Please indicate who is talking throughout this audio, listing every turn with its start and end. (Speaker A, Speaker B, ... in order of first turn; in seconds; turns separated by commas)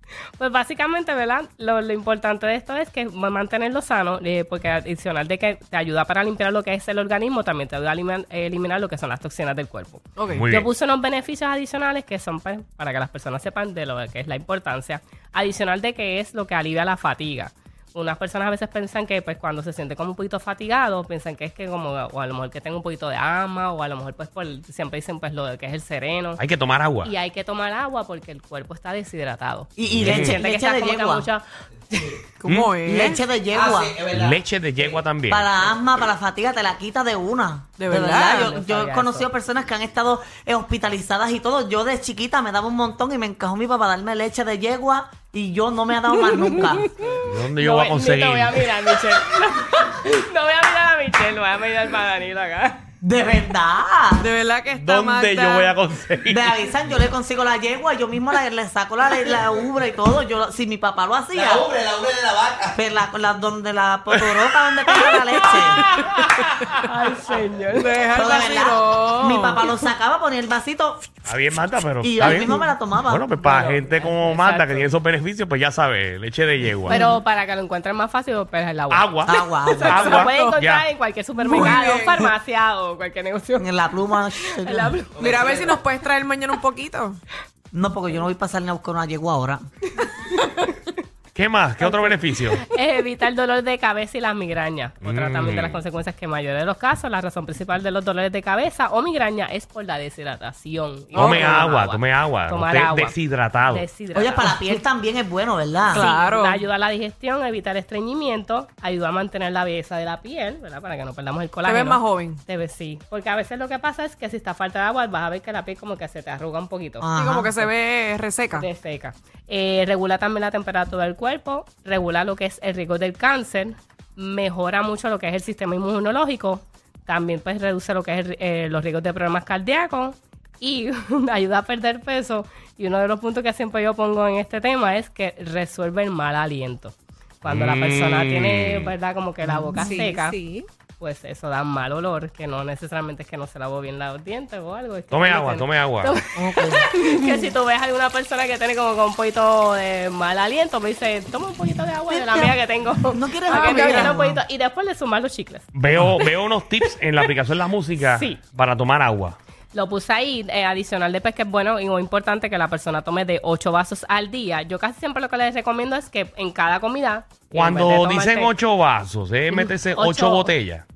Speaker A: 0.4-26.4, Speaker B: 10.2-10.4, Speaker C: 10.3-10.7, Speaker C: 26.4-27.1, Speaker A: 27.0-32.2, Speaker D: 29.8-31.3, Speaker C: 29.9-30.4, Speaker B: 32.4-33.2, Speaker C: 32.5-32.8, Speaker D: 32.5-34.0, Speaker E: 33.5-35.0, Speaker C: 34.1-35.5, Speaker D: 35.3-46.9, Speaker B: 37.8-38.5, Speaker A: 38.2-39.3, Speaker A: 47.0-52.8, Speaker C: 47.2-48.7, Speaker D: 53.0-54.3, Speaker B: 54.2-55.8, Speaker C: 54.7-56.7, Speaker D: 56.2-61.7, Speaker E: 61.3-62.8, Speaker D: 62.7-65.8, Speaker C: 64.1-66.5, Speaker A: 66.6-67.9, Speaker B: 67.7-69.7, Speaker D: 68.1-71.1, Speaker C: 71.3-77.0, Speaker D: 72.0-73.2, Speaker A: 73.4-74.9, Speaker A: 76.9-83.8, Speaker C: 78.9-80.8, Speaker D: 79.2-80.1, Speaker B: 80.1-80.5, Speaker B: 81.4-82.3, Speaker D: 83.6-85.0, Speaker A: 84.3-85.7, Speaker B: 85.2-87.2, Speaker E: 85.2-85.7, Speaker D: 87.7-89.6, Speaker A: 90.0-90.6, Speaker C: 91.3-92.6, Speaker A: 91.8-104.8, Speaker C: 95.0-95.8, Speaker C: 101.1-103.8, Speaker D: 104.1-106.1, Speaker B: 105.9-106.7, Speaker A: 105.9-117.1, Speaker B: 111.6-112.4, Speaker D: 117.0-117.7, Speaker B: 117.2-118.7, Speaker A: 118.5-140.4, Speaker C: 137.4-138.9, Speaker D: 139.4-139.8, Speaker B: 139.8-140.7, Speaker A: 141.0-155.7, Speaker C: 145.1-146.2, Speaker D: 146.3-146.9, Speaker D: 152.1-154.4, Speaker B: 153.5-154.2, Speaker C: 155.7-159.4, Speaker A: 158.0-158.4, Speaker A: 159.7-168.5, Speaker C: 167.5-170.8, Speaker A: 169.7-170.5